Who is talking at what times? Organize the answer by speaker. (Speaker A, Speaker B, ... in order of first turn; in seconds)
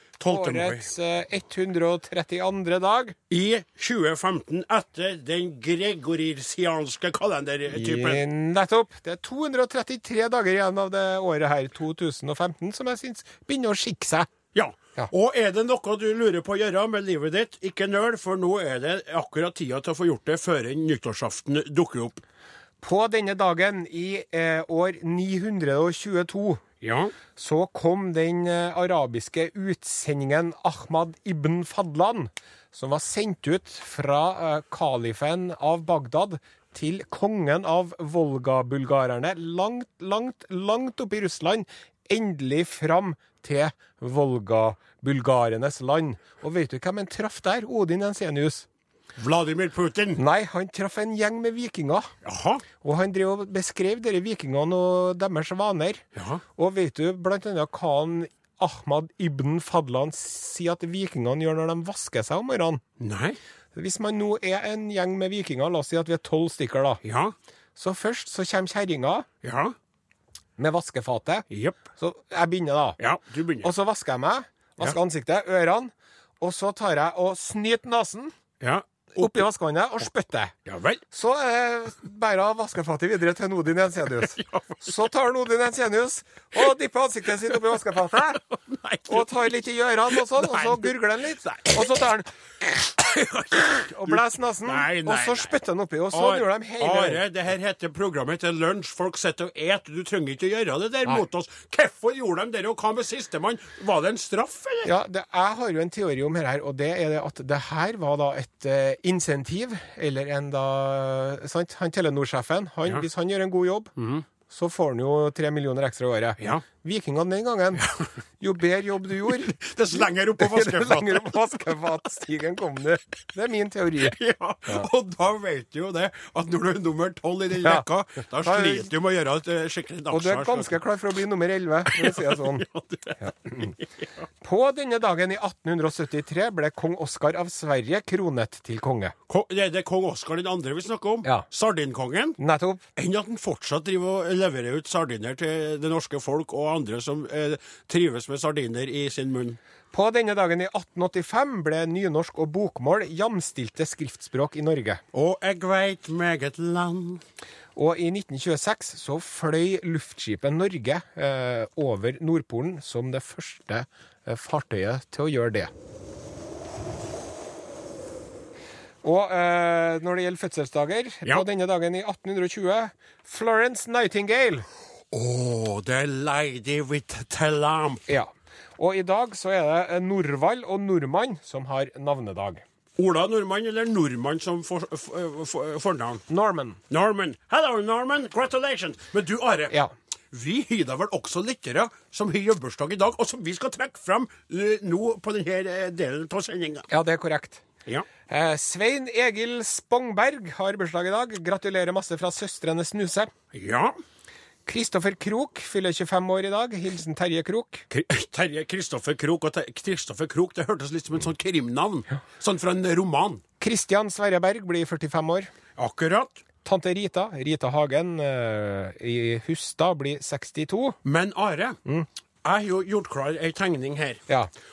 Speaker A: 0.2-0.9, 3.3-8.2, 14.5-22.2, 26.8-27.1, 49.1-50.2, 52.2-52.6, 56.1-56.4, 63.0-63.4, 67.0-67.3, 69.4-69.7, 71.5-71.8, 73.0-73.7, 78.6-79.4, 80.7-81.0, 84.2-85.1, 87.4-88.0, 88.5-89.6, 90.1-91.9, 92.8-95.5, 96.1-104.9, 114.0-114.2, 116.4-116.6, 119.4-121.6, 124.0-130.8, 131.9-134.1, 139.3-142.4, 142.9-149.6, 155.1-157.2, 175.1-178.0, 183.0-186.2, 186.9-189.7, 190.3-196.9, 203.5-203.9, 207.9-213.4, 215.8-216.4, 221.0-221.8, 222.4-224.2
Speaker B: 0.3-3.2, 7.7-14.3, 22.8-26.6, 27.4-48.6, 50.2-52.1, 52.8-56.0, 56.5-62.8, 63.7-67.0, 67.8-69.2, 70.6-71.4, 72.0-73.0, 73.6-78.3, 79.2-80.5, 81.1-88.4, 89.1-92.3, 93.8-97.2, 104.8-113.9, 114.5-117.9, 118.4-124.9, 127.6-127.8, 128.4-128.9, 130.1-132.6, 133.2-133.7, 134.4-139.1, 142.4-142.8, 149.9-155.0, 157.8-165.7, 169.0-174.7, 178.1-182.6, 186.3-186.8, 196.9-197.6, 198.3-203.3, 204.7-207.8, 213.6-215.5, 216.6-221.0